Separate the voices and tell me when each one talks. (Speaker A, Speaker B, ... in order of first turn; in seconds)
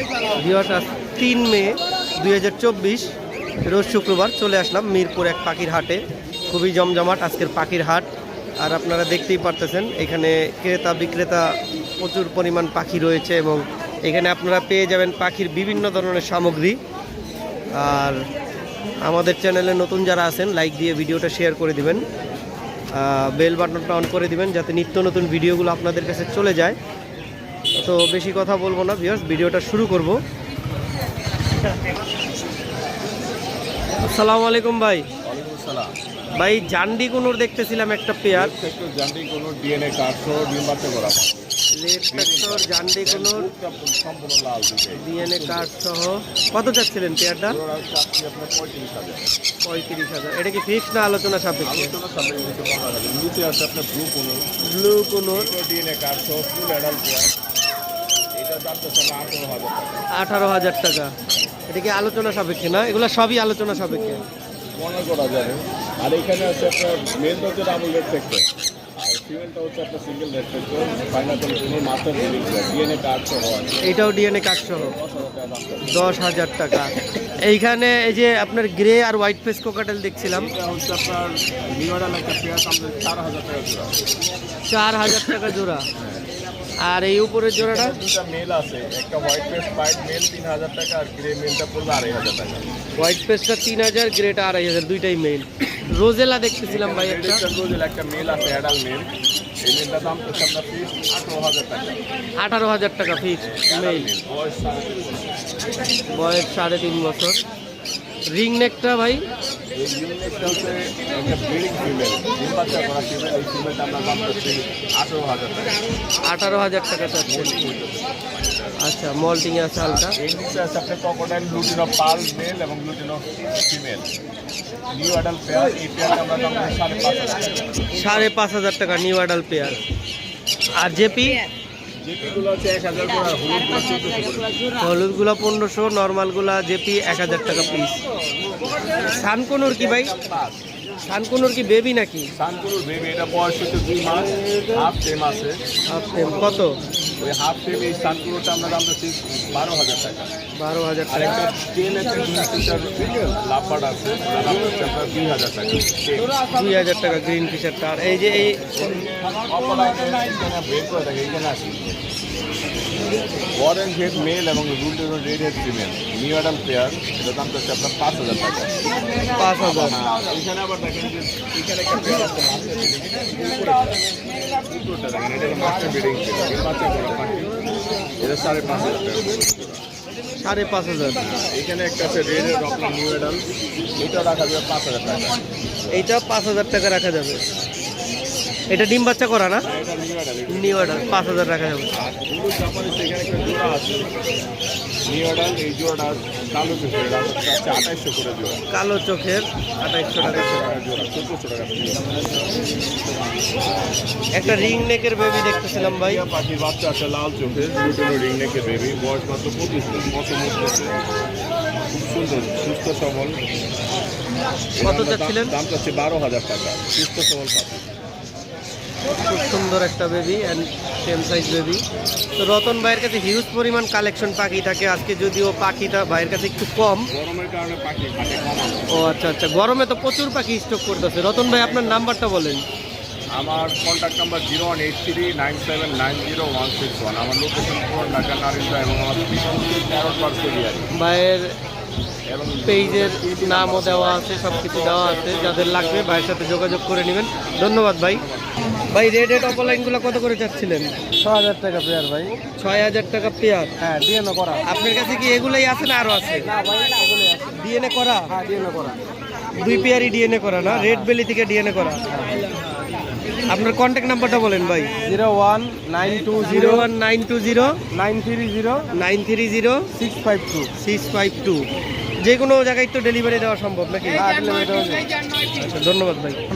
Speaker A: 0.4-3.1, 3.6-8.1, 8.6-16.8, 17.7-18.2, 19.0-22.0, 22.9-26.8, 27.8-30.2, 34.0-35.1, 36.4-38.5, 41.8-43.5, 45.0-47.6, 49.6-52.0, 54.6-55.5, 60.1-61.1, 61.7-64.2, 73.8-74.9, 75.9-80.5, 84.6-85.9, 86.8-88.0, 93.0-97.4, 102.4-104.1, 106.1-107.4, 108.3-109.2, 116.2-117.5, 118.8-120.2, 127.9-129.8, 130.8-131.5, 134.8-138.0, 139.0-140.1, 141.1-142.3, 145.9-146.8, 150.6-151.4, 156.5-158.8, 169.2-170.0, 180.4-181.2, 185.9-187.4, 188.7-189.7, 190.5-191.9, 198.7-200.6, 204.4-206.2, 214.8-215.5, 219.1-221.8, 222.4-227.1, 228.9-232.6, 240.9-241.6, 242.7-248.3, 248.9-250.9, 252.6-253.7, 254.6-256.5, 257.5-258.4, 259.5-262.1, 263.5-265.0, 266.3-267.8, 268.9-269.9, 270.8-271.6, 272.2-274.5, 275.5-276.4
Speaker B: 35.2-36.0, 38.3-41.5, 42.1-45.7, 47.5-49.3, 51.6-54.5, 55.3-57.3, 58.3-60.1, 64.7-73.8, 74.8-76.2, 80.2-84.0, 87.6-92.7, 96.7-99.1, 99.6-101.9, 103.4-105.3, 109.7-115.8, 117.2-118.7, 119.8-124.1, 124.9-128.2, 132.0-134.6, 139.6-140.6, 142.4-145.6, 147.2-150.3, 151.1-156.3, 158.7-162.0, 163.5-168.9, 169.7-174.0, 174.6-177.6, 178.2-179.8, 181.2-186.1, 189.7-194.2, 195.1-198.6, 200.1-202.1, 204.4-204.9, 205.7-211.0, 211.9-213.4, 214.8-217.9, 227.1-229.2, 233.3-240.9, 242.3-244.4, 245.0-245.8
Speaker C: 251.2-252.4, 253.8-254.7, 256.4-257.5, 258.3-259.0, 260.7-261.1, 262.1-262.4, 265.0-266.9, 267.9-268.9, 269.9-270.7, 274.1-275.4